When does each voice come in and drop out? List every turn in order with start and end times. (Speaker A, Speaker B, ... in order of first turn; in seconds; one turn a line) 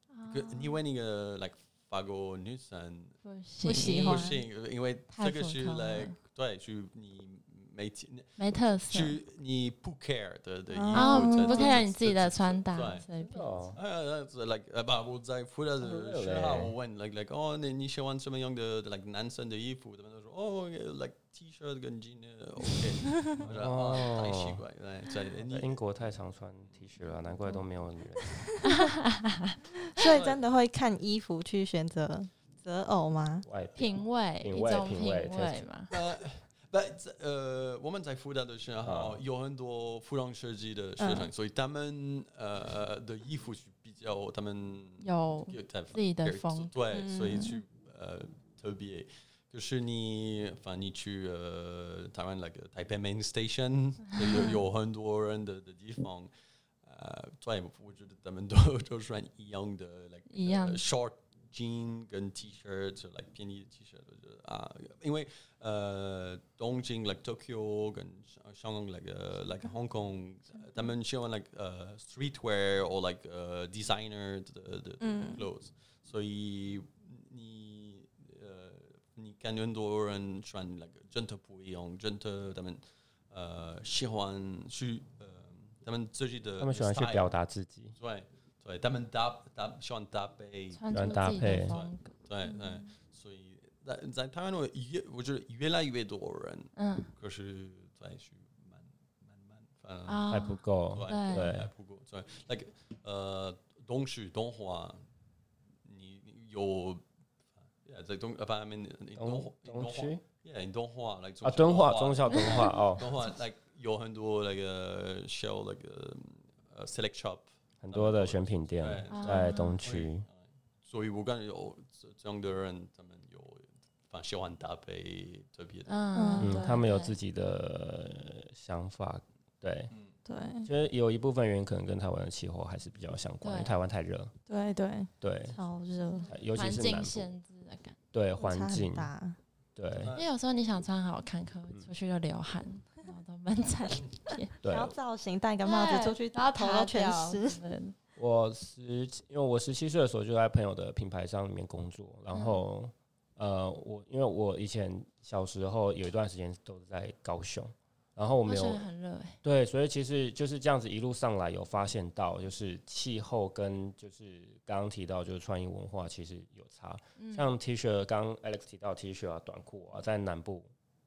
Speaker A: 0.1-0.8
Speaker B: 0.3-3.2
Speaker A: 3.2-4.3
Speaker C: 3.6-4.4
Speaker B: 3.8-13.1
Speaker A: 5.1-6.2
Speaker A: 8.4-9.2
Speaker C: 10.7-11.8
Speaker A: 10.9-13.8
Speaker D: 13.2-13.8
Speaker B: 13.8-25.8
Speaker D: 15.8-16.7
Speaker D: 23.4-24.6
Speaker D: 25.4-28.4
Speaker A: 28.6-29.6
Speaker C: 29.9-33.5
Speaker B: 30.0-30.4
Speaker D: 33.5-35.7
Speaker A: 33.8-35.9
Speaker B: 35.9-56.3
Speaker D: 38.8-39.2
Speaker C: 41.0-41.3
Speaker A: 45.0-46.7
Speaker C: 46.9-47.6
Speaker A: 54.2-54.5
Speaker B: 56.8-87.3
Speaker A: 60.3-60.8
Speaker C: 75.0-75.4
Speaker D: 86.6-88.0
Speaker B: 88.0-105.0
Speaker A: 90.7-92.1
Speaker D: 90.9-91.7
Speaker C: 92.5-92.8
Speaker A: 96.8-97.1
Speaker A: 100.1-101.5
Speaker D: 100.3-101.7
Speaker B: 105.8-107.0
Speaker B: 107.8-125.9
Speaker D: 109.2-110.2
Speaker D: 111.4-113.1
Speaker A: 112.3-112.8
Speaker D: 117.8-120.3
Speaker A: 119.1-119.8
Speaker A: 125.9-127.1
Speaker C: 126.1-126.8
Speaker D: 126.4-129.9
Speaker C: 130.3-130.7
Speaker D: 130.7-134.3
Speaker A: 133.4-133.8
Speaker C: 134.5-136.3
Speaker D: 135.2-135.6
Speaker A: 136.1-138.0
Speaker D: 136.3-137.3
Speaker D: 138.1-139.1
Speaker C: 138.4-139.4
Speaker D: 139.8-140.2
Speaker B: 140.0-140.3
Speaker A: 140.1-144.6
Speaker D: 144.6-144.9
Speaker C: 144.6-147.6
Speaker A: 145.6-148.0
Speaker D: 148.2-158.8
Speaker A: 152.3-152.7
Speaker A: 158.5-159.4
Speaker D: 159.4-170.7
Speaker A: 167.2-167.5